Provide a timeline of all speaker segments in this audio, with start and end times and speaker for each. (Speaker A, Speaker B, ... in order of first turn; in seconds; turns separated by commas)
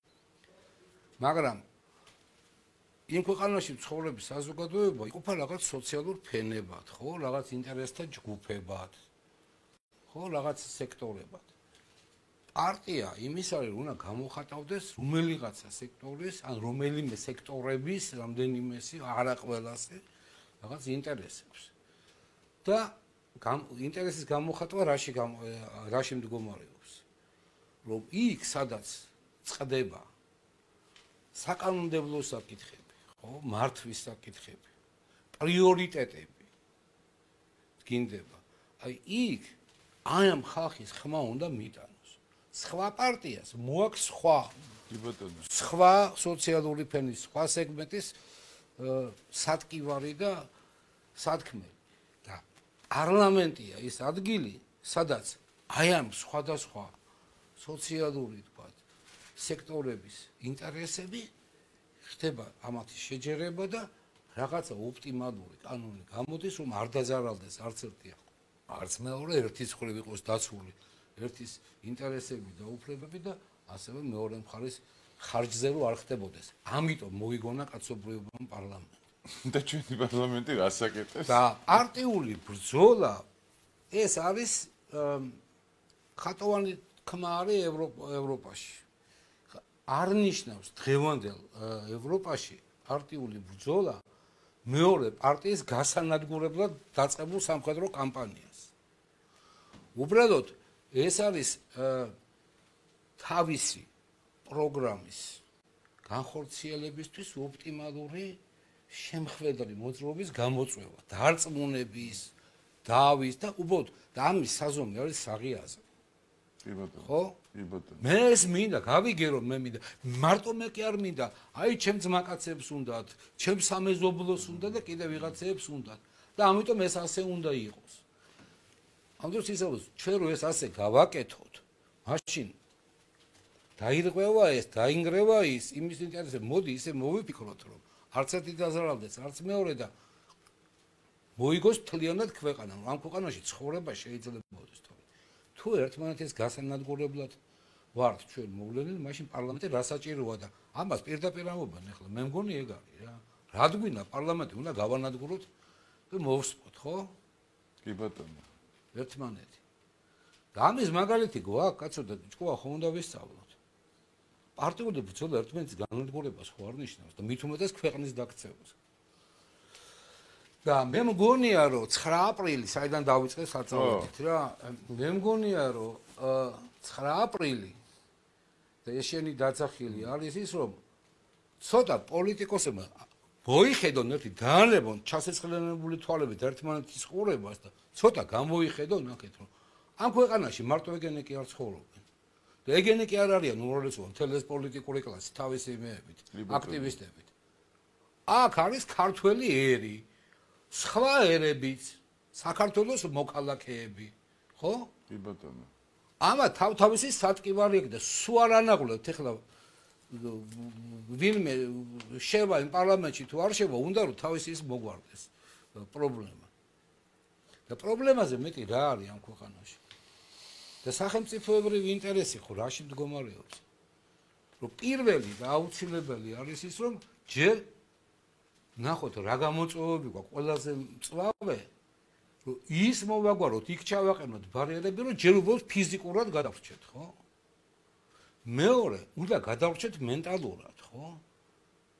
Speaker A: 1.2-1.6, Speaker A: 3.1-8.9, Speaker A: 10.1-11.5, Speaker A: 12.6-20.0, Speaker A: 20.6-21.7, Speaker A: 22.6-27.0, Speaker A: 27.8-30.1, Speaker A: 31.3-34.7, Speaker A: 35.4-36.5, Speaker A: 37.8-39.5, Speaker A: 40.1-44.5, Speaker B: 44.9-45.4, Speaker A: 45.4-48.2, Speaker A: 48.8-50.5, Speaker A: 51.2-56.9, Speaker A: 57.6-58.8, Speaker A: 59.4-61.3, Speaker A: 62.0-79.0, Speaker B: 79.3-81.4, Speaker A: 81.3-83.2, Speaker A: 83.9-85.4, Speaker A: 86.2-88.8, Speaker A: 89.5-94.0, Speaker A: 94.7-98.7, Speaker A: 100.0-102.1, Speaker A: 103.2-103.9, Speaker A: 104.5-105.4, Speaker A: 106.0-112.3, Speaker A: 112.8-115.8, Speaker B: 116.6-118.0, Speaker A: 117.0-117.4, Speaker A: 118.0-128.0, Speaker A: 129.2-132.6, Speaker A: 133.8-139.9, Speaker A: 141.4-145.0, Speaker A: 145.6-147.4, Speaker A: 147.9-155.5, Speaker A: 156.1-157.1, Speaker B: 157.8-158.4, Speaker A: 158.9-159.6, Speaker A: 160.5-163.6, Speaker A: 164.6-168.8, Speaker A: 170.6-177.8, Speaker B: 173.7-174.1, Speaker A: 178.8-180.8, Speaker A: 181.6-192.1, Speaker A: 192.7-197.3, Speaker B: 196.3-196.9, Speaker A: 198.3-200.1, Speaker A: 200.7-204.9, Speaker B: 205.1-205.7, Speaker A: 206.2-209.4, Speaker A: 210.1-216.5, Speaker A: 217.7-219.8, Speaker A: 220.8-223.6, Speaker A: 224.6-227.7, Speaker A: 228.8-231.7, Speaker A: 232.4-237.2, Speaker A: 238.4-241.2